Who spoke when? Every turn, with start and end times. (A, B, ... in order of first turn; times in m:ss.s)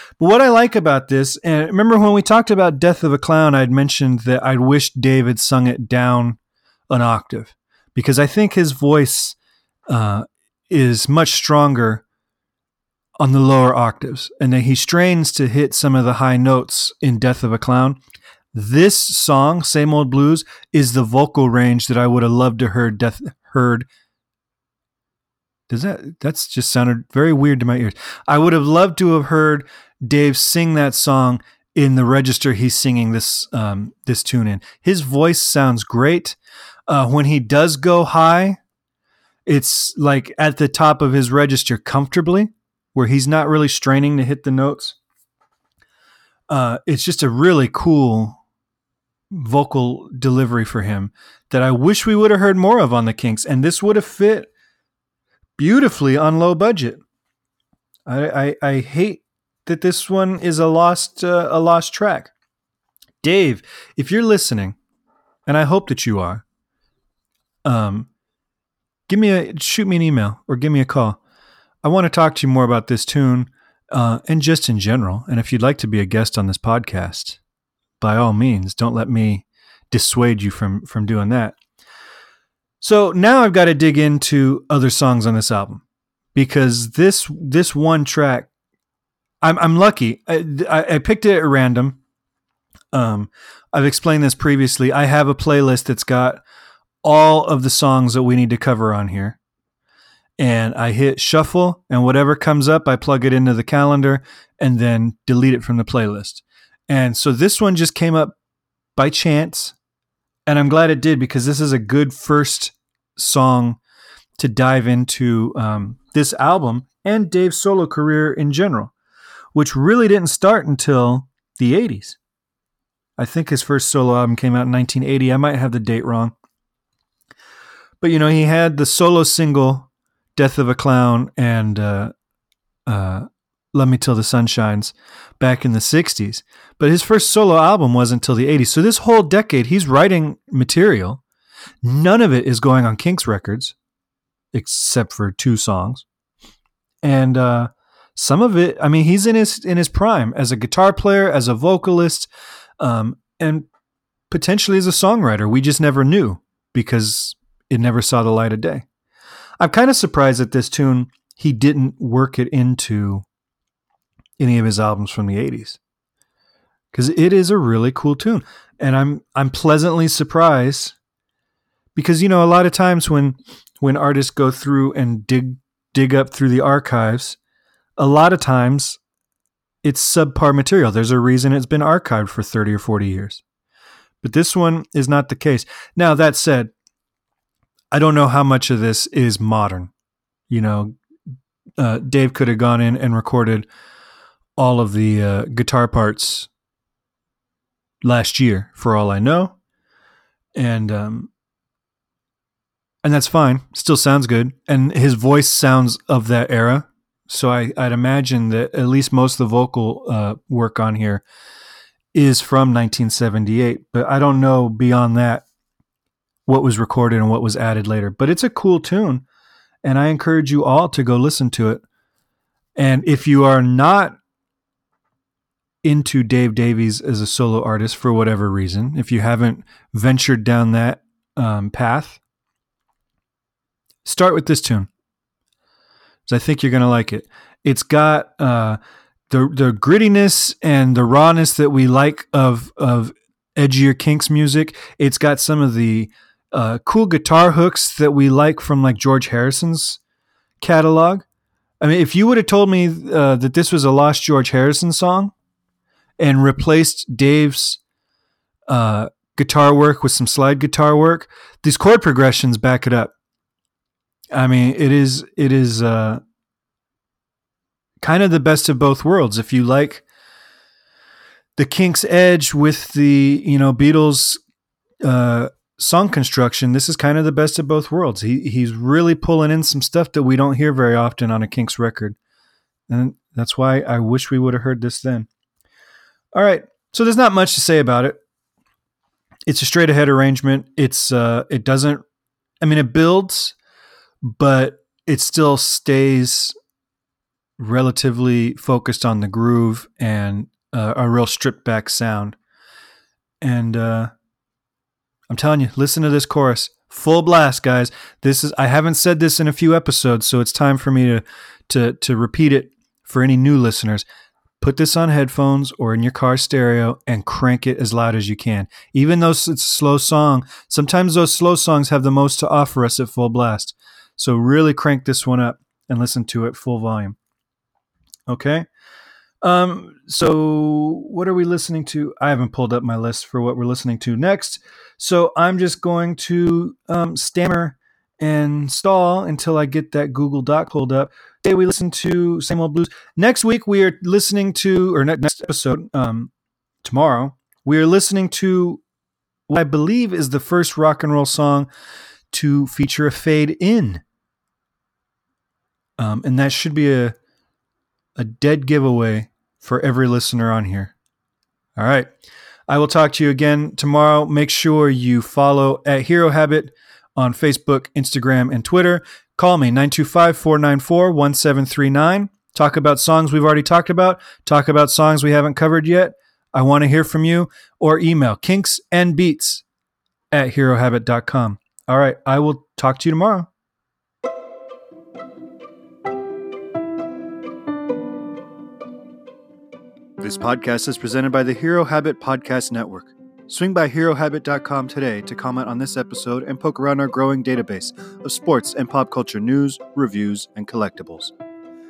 0:00.2-0:09.4 A
0:09.9-0:12.0 A
0:13.2-0:18.0 A
0:18.5-0:23.9 A
0:25.7-0:36.4 A
0:36.9-0:38.6 A
0:39.5-0:45.0 A
0:46.5-0:48.4 A
0:49.3-0:54.5 A
0:55.6-0:57.0 A
0:58.1-1:02.3 A
1:03.2-1:04.8 A
1:05.5-1:06.4 A
1:07.6-1:08.1 A
1:09.1-1:11.2 A
1:11.8-1:17.4 A
1:18.0-1:21.6 A
1:22.8-1:25.8 A
1:26.4-1:28.5 A
1:29.4-1:32.0 A
1:32.9-1:36.4 A
1:37.0-1:39.4 A
1:40.4-1:48.4 A
1:49.0-1:49.8 A
1:50.5-1:53.8 A
1:54.4-1:58.9 A
1:59.6-2:02.2 A
2:03.2-2:06.3 A
2:08.0-2:12.1 A
2:12.9-2:21.2 A
2:21.8-2:23.8 A
2:24.5-2:26.1 A
2:27.0-2:32.3 A
2:32.8-2:33.7 A
2:34.3-2:38.8 A
2:39.6-2:43.3 A
2:44.4-2:45.8 A
2:46.9-2:51.0 A
2:52.0-2:57.4 A
2:58.0-2:59.0 A
2:59.8-3:03.4 A
3:04.2-3:06.7 A
3:07.9-3:09.9 A
3:10.5-3:11.0 A
3:11.8-3:13.7 A
3:14.6-3:16.5 A
3:18.0-3:19.6 A
3:20.6-3:21.3 A
3:23.0-3:31.2 A
3:32.1-3:35.5 A
3:36.5-3:39.2 A
3:39.8-3:41.8 A
3:42.8-3:44.2 A
3:45.8-3:52.2 A
3:54.0-3:54.9 A
3:56.3-3:58.8 A
3:59.3-4:10.0 A
4:10.6-4:11.3 A
4:11.8-4:15.3 A
4:16.2-4:17.8 A
4:18.7-4:23.1 A
4:24.3-4:26.2 A
4:28.0-4:30.0 A
4:31.6-4:34.4 A
4:35.0-4:42.2 A
4:42.9-4:45.3 A
4:46.3-4:48.2 A
4:49.5-4:52.0 A
4:52.6-4:53.6 A
4:54.2-4:56.6 A
4:57.6-5:02.4 A
5:03.4-5:04.1 A
5:05.3-5:14.0 A
5:14.6-5:27.2 A
5:28.3-5:28.7 A
5:29.4-5:46.3 A
5:46.8-5:48.8 A
5:49.5-5:51.7 A
5:52.3-5:54.0 A
5:56.0-5:57.2 A
5:58.2-6:01.0 A
6:01.8-6:02.1 A
6:02.7-6:19.6 A
6:20.3-6:23.5 A
6:30.2-6:41.3 A